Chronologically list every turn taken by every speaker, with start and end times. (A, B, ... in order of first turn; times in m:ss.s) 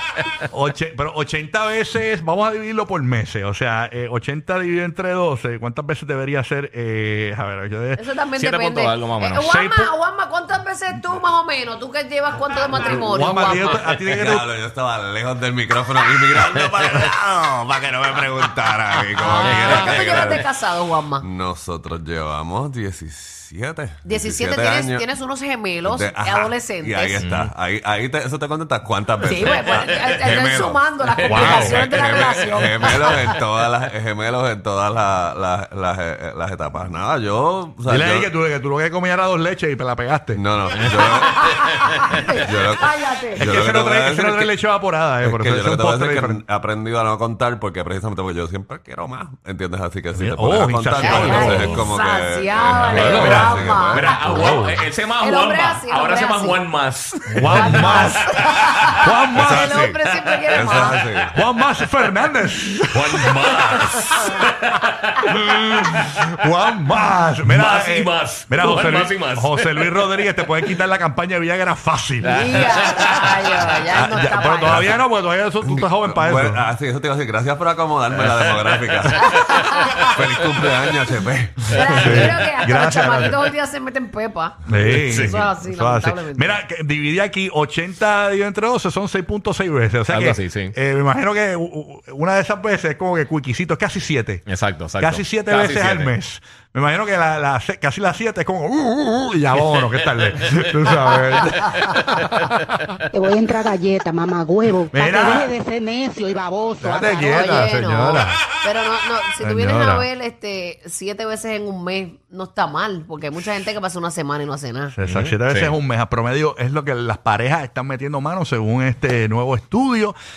0:00.5-0:08.0 A
0:08.0-0:13.8 B
0:08.4-0:09.6 C
0:09.4-0:09.9 A
0:12.8-0:14.5 A
0:14.0-0:20.4 D
0:19.2-0:21.2 B
0:19.4-0:20.3 C
0:21.2-0:25.0 D
0:24.0-0:27.2 B
0:25.8-0:38.3 D
0:27.2-0:27.5 C
0:29.2-0:33.3 B
0:29.4-0:30.1 C
0:31.1-0:32.4 C
0:31.3-0:31.9 A
0:37.8-0:40.4 A
0:40.3-0:44.5 D
0:41.1-0:43.4 B
0:43.4-0:46.4 A
0:45.2-0:54.2 D
0:50.1-0:51.8 A
0:51.0-0:54.5 B
0:52.8-0:58.9 C
0:53.0-0:53.7 A
0:54.2-0:54.8 A
0:55.2-0:56.6 B
0:57.3-0:58.4 A
0:57.5-1:01.0 B
0:59.0-0:59.9 A
0:59.4-0:59.9 D
1:00.5-1:01.4 D
1:01.3-1:04.0 A
1:02.9-1:06.2 C
1:05.3-1:12.6 A
1:07.4-1:10.0 C
1:12.2-1:13.8 C
1:12.3-1:15.0 B
1:13.9-1:16.7 A
1:15.6-1:19.6 D
1:18.1-1:19.6 C
1:19.2-1:20.1 B
1:20.1-1:22.3 D
1:21.7-1:26.6 B
1:21.9-1:23.4 A
1:24.6-1:34.4 A
1:24.7-1:25.4 C
1:30.1-1:30.7 C
1:34.5-1:36.1 C
1:35.0-1:42.7 A
1:43.1-1:47.5 E
1:44.9-1:45.5 A
1:46.8-1:48.4 A
1:47.2-1:54.9 B
1:49.4-1:50.1 A
1:54.9-2:00.1 A
1:55.0-1:55.8 C